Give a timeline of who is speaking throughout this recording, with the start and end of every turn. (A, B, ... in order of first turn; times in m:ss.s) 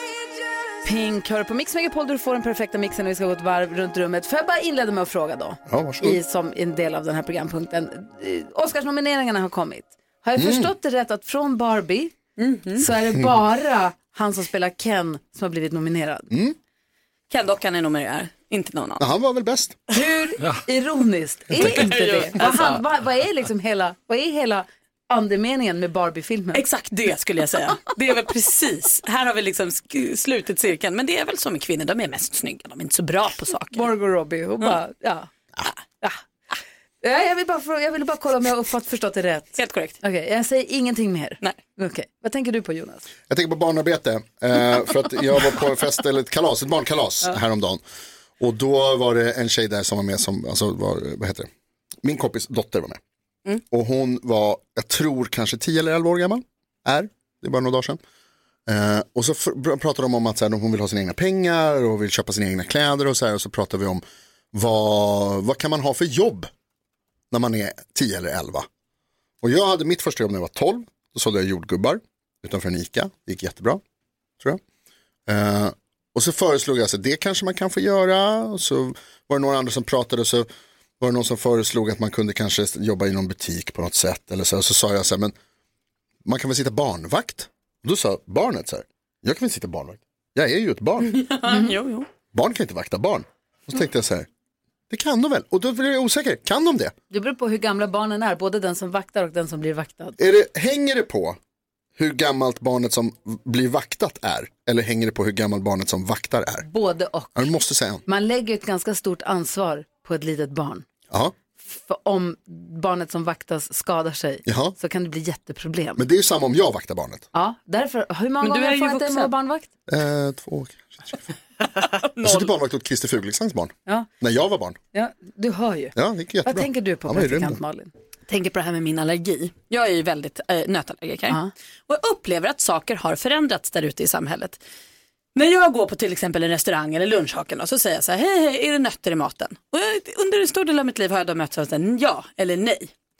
0:00.8-0:12.2 A
0:05.7-0:06.2 B
0:10.4-0:10.7 B
0:12.4-0:12.9 C
0:12.8-0:16.3 A
0:16.3-0:16.6 B
0:17.3-0:19.0 C
0:19.0-0:19.8 B
0:19.9-0:26.6 A
0:21.6-0:22.8 C
0:26.5-0:33.9 C
0:33.7-0:35.3 A
0:37.0-0:43.1 A
0:39.6-0:40.0 C
0:43.3-0:47.8 B
0:48.4-0:51.5 B
0:52.0-0:53.0 B
0:53.7-0:58.0 B
0:58.7-1:06.5 B
1:07.3-1:08.7 B
1:09.4-1:13.8 B
1:15.3-1:20.5 B
1:21.0-1:25.4 B
1:26.2-1:31.2 B
1:31.0-1:32.1 C
1:32.3-1:34.3 B
1:34.9-1:36.9 B
1:37.1-1:40.2 A
1:40.2-1:41.4 B
1:42.0-1:46.7 B
1:46.7-1:50.8 A
1:47.4-1:48.0 B
1:51.6-1:56.0 A
1:54.5-1:54.8 B
1:56.0-1:57.3 B
1:57.3-1:59.7 A
1:58.4-1:59.3 C
1:59.9-2:01.2 B
2:02.2-2:04.8 B
2:04.9-2:07.9 A
2:06.0-2:07.6 B
2:08.3-2:14.6 C
2:15.4-2:22.9 C